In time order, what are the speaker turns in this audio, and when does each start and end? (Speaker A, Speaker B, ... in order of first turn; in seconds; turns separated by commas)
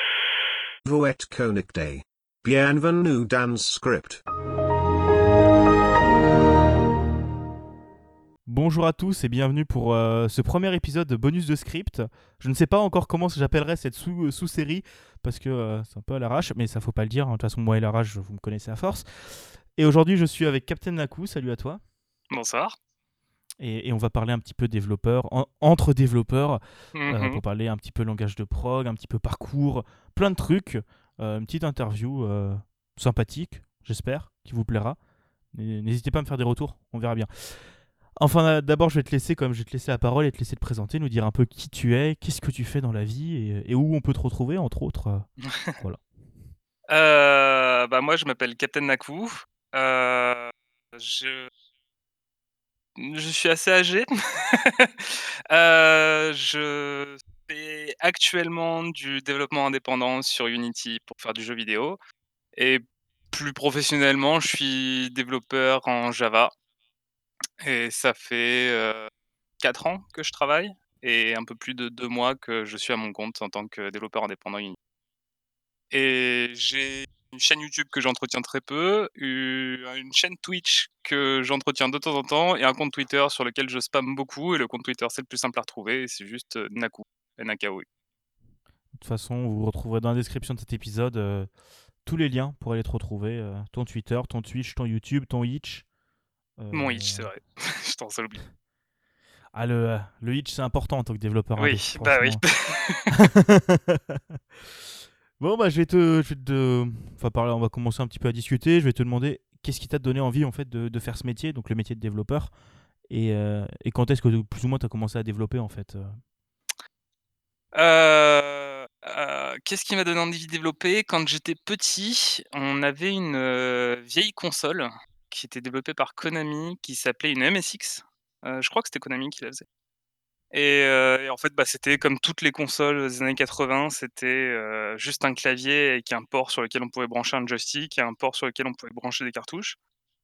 Speaker A: 0.8-4.2, Speaker B: 8.5-21.8, Speaker C: 22.3-22.8, Speaker B: 23.6-35.0, Speaker C: 26.9-27.4, Speaker B: 35.5-46.0, Speaker C: 46.9-51.5, Speaker C: 53.0-62.0, Speaker C: 62.6-66.5, Speaker C: 67.6-69.1, Speaker C: 69.6-74.8, Speaker C: 75.9-87.9, Speaker B: 88.9-91.5, Speaker B: 92.0-95.8, Speaker B: 96.6-97.3, Speaker C: 96.7-98.4, Speaker B: 99.5-102.4, Speaker C: 101.6-103.1, Speaker B: 103.1-104.4, Speaker B: 105.4-112.5, Speaker B: 113.1-116.2, Speaker C: 117.8-129.7, Speaker C: 130.5-139.8